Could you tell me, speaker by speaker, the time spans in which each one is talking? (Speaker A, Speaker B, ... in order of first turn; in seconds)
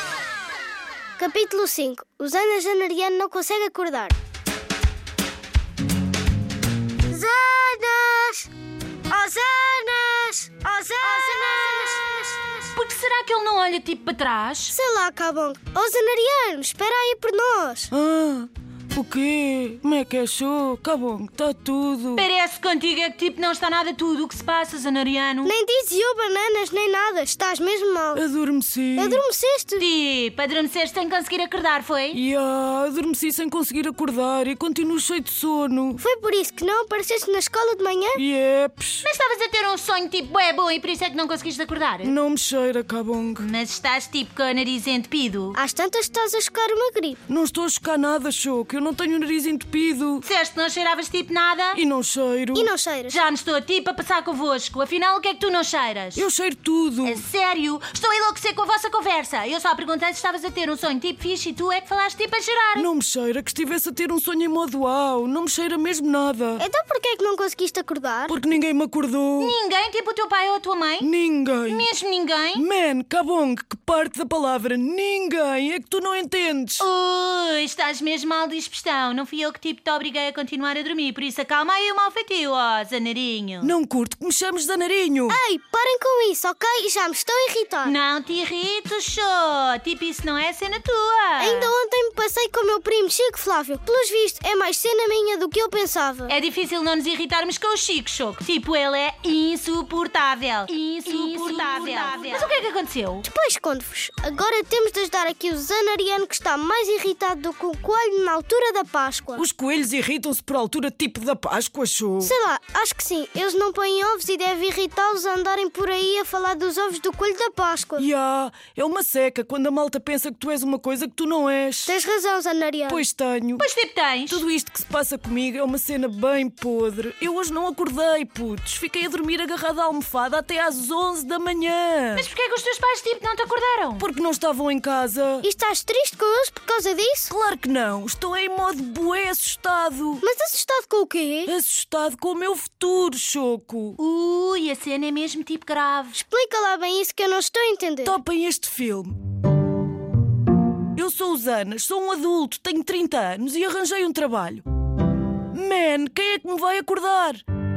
Speaker A: 1.2-4.2, 7.1-8.5, 9.1-12.7, 14.7-17.9, 25.4-28.2, 29.0-29.9, 36.0-38.2, 45.5-47.2, 52.5-53.2, 66.6-68.4, 85.3-88.0, 91.4-96.3, 103.2-109.5, 112.2-118.1, 121.9-123.0, 135.4-137.3, 140.2-141.5, 146.2-148.2
Speaker B: 11.2-11.5, 12.7-14.8, 22.2-25.5, 29.8-32.2, 39.0-42.1, 43.4-45.6, 50.2-51.8, 53.1-56.3, 57.0-62.9, 69.4-71.1, 71.7-72.7, 76.8-83.7, 87.8-91.7, 96.3-103.2, 123.6-124.4, 132.2-134.1, 144.0-146.2
Speaker C: 17.9-22.3, 28.1-29.2, 32.1-36.0, 38.1-39.1, 42.0-43.5, 47.3-50.3, 51.7-52.7, 56.1-57.2, 62.8-66.6, 68.3-69.5, 71.0-71.9, 72.5-76.9, 83.6-85.4, 101.1-101.5, 109.4-112.3, 118.0-122.0, 122.9-123.7, 124.3-132.3, 134.0-135.5, 137.3-140.2, 141.5-144.0, 148.0-149.2, 150.9-154.6, 155.5-157.4